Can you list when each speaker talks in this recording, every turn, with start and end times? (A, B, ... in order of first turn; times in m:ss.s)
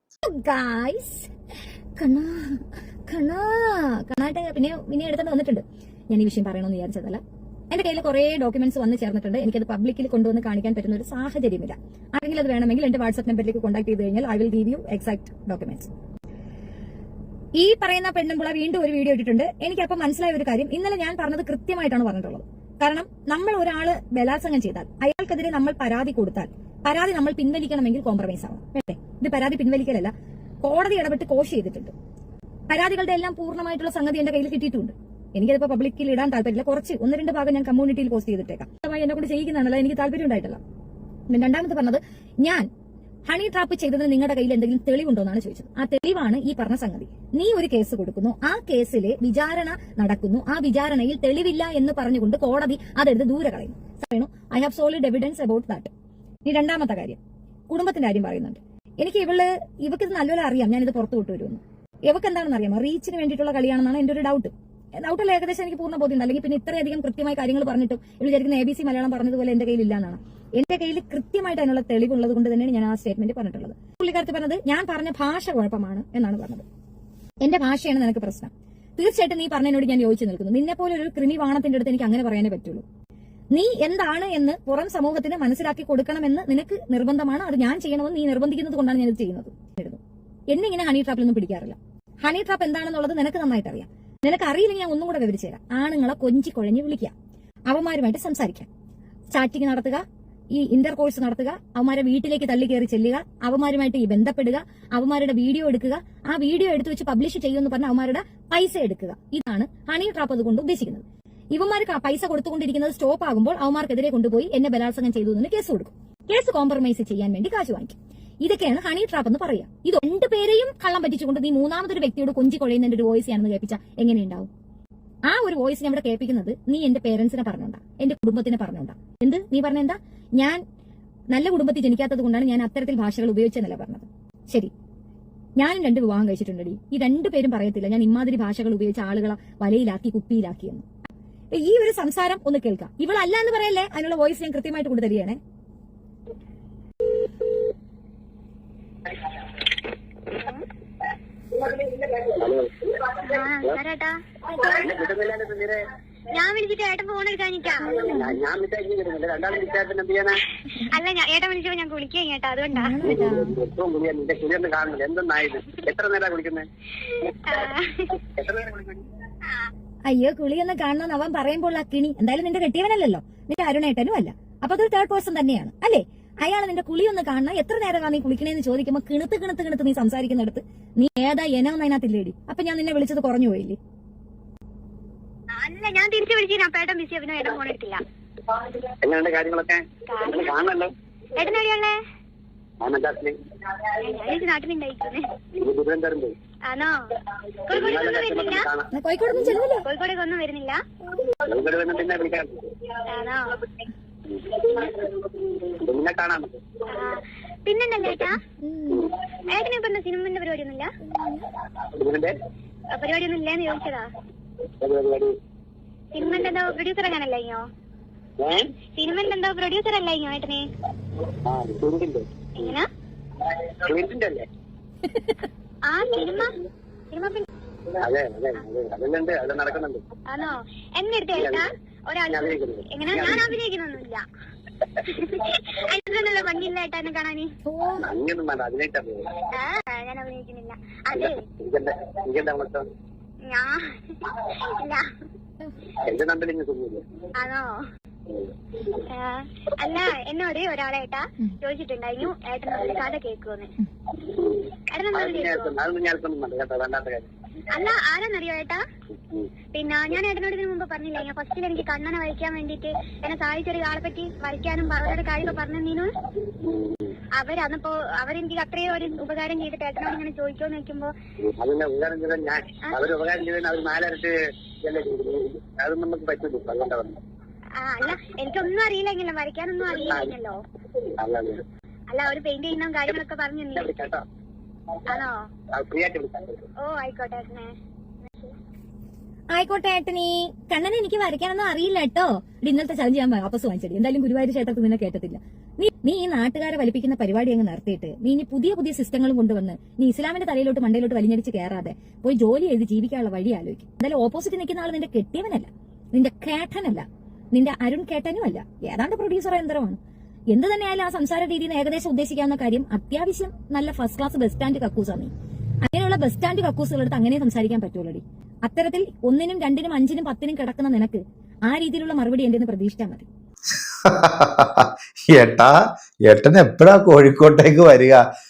0:00.2-0:01.3 A
0:02.0-0:15.9 A
0:17.6-0:30.1 A
0:30.6-0:31.9 A
0:32.7-0:40.6 A
0:41.3-0:42.6 A
0:43.2-0:55.9 A
0:56.4-1:16.6 A
1:17.4-1:22.8 A
1:23.5-1:30.0 A
1:30.5-1:37.1 A
1:37.7-1:38.7 A
1:39.3-1:40.0 A
1:40.6-1:51.0 A
1:51.6-2:04.5 A
2:05.3-2:10.6 A
2:11.3-2:14.7 A
2:15.6-2:20.8 A
2:21.5-2:25.4 A
2:30.3-2:30.6 B
2:32.2-2:32.8 C
2:33.1-2:34.2 B
2:34.6-2:35.8 C
2:36.3-2:38.1 B
2:37.8-2:40.4 C
2:40.8-2:42.9 B
2:42.7-2:43.5 A
2:43.0-2:46.7 C
2:47.4-2:48.2 B
2:48.4-2:49.0 C
2:50.0-3:03.8 A
3:05.5-3:08.0 B
3:09.0-3:10.9 C
3:10.1-3:10.6 B
3:11.3-3:12.0 B
3:12.8-3:13.4 C
3:14.0-3:15.2 B
3:15.6-3:16.3 C
3:16.7-3:17.1 B
3:17.6-3:18.6 B
3:17.7-3:18.9 C
3:18.9-3:19.8 A
3:19.8-3:20.8 B
3:21.4-3:22.7 C
3:23.1-3:23.6 B
3:25.6-3:26.5 C
3:26.9-3:28.4 B
3:28.6-3:29.1 A
3:29.5-3:30.9 B
3:31.1-3:31.4 A
3:31.9-3:32.3 C
3:32.9-3:34.1 B
3:34.8-3:35.3 C
3:36.1-3:37.6 B
3:38.4-3:38.7 C
3:38.9-3:40.7 B
3:41.4-3:42.3 C
3:42.6-3:42.9 B
3:43.7-3:44.5 C
3:45.8-3:46.5 B
3:47.1-3:47.5 B
3:48.0-3:50.0 C
3:50.3-3:54.2 B
3:51.4-3:51.6 C
3:52.3-3:53.5 C
3:55.0-3:57.5 B
3:57.7-3:58.0 A
3:58.0-3:59.4 C
3:59.5-4:01.4 B
4:01.1-4:02.9 C
4:03.4-4:05.1 B
4:06.0-4:07.0 C
4:07.4-4:07.8 B
4:08.9-4:13.7 B
4:14.9-4:15.7 B
4:15.1-4:17.3 C
4:17.7-4:18.8 B
4:19.7-4:26.1 B
4:26.6-4:27.1 C
4:27.4-4:31.1 B
4:31.6-4:37.2 C
4:37.8-4:40.6 B
4:41.2-4:41.6 C
4:42.1-4:43.9 B
4:43.8-4:44.2 C
4:45.1-4:45.4 B
4:45.7-4:46.6 C
4:46.8-4:47.7 B
4:49.5-5:10.0 A
5:10.5-5:15.3 A
5:15.8-5:23.2 A
5:24.0-5:28.2 D